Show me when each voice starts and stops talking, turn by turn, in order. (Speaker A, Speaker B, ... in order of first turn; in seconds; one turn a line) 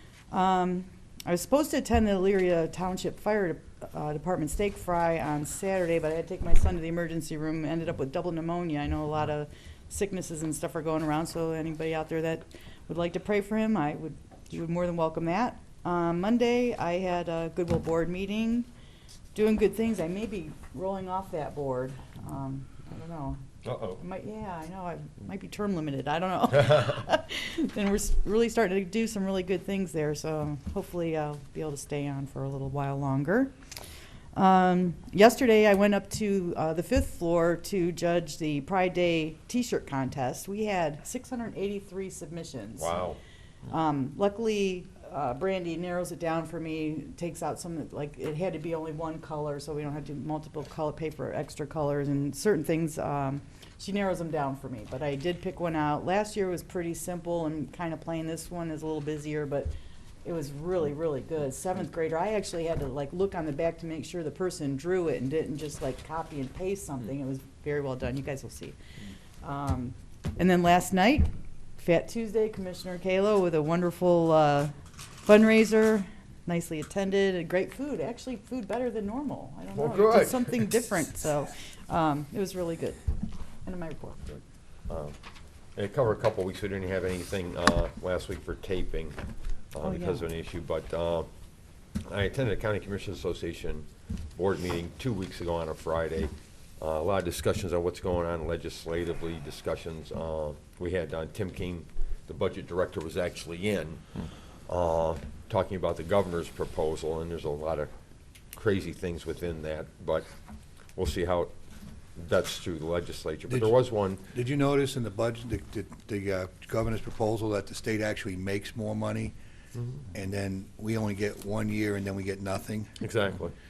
Speaker A: 0.3-18.7
Speaker A: 19.3-33.5
Speaker B: 23.6-24.0
Speaker B: 26.5-27.0
Speaker A: 34.3-43.0
Speaker B: 42.8-43.2
Speaker A: 43.7-59.7
Speaker A: 60.2-68.8
Speaker A: 69.4-74.7
Speaker A: 75.2-83.0
Speaker B: 79.7-80.7
Speaker A: 83.6-84.4
Speaker B: 84.9-85.1
Speaker B: 85.8-89.2
Speaker B: 89.7-91.3
Speaker A: 89.8-90.2
Speaker B: 92.0-104.0
Speaker B: 104.7-107.9
Speaker B: 108.5-110.3
Speaker B: 110.9-111.5
Speaker B: 112.2-114.2
Speaker C: 113.5-113.8
Speaker C: 114.3-119.3
Speaker B: 119.7-120.0
Speaker C: 120.1-123.0
Speaker B: 123.0-123.5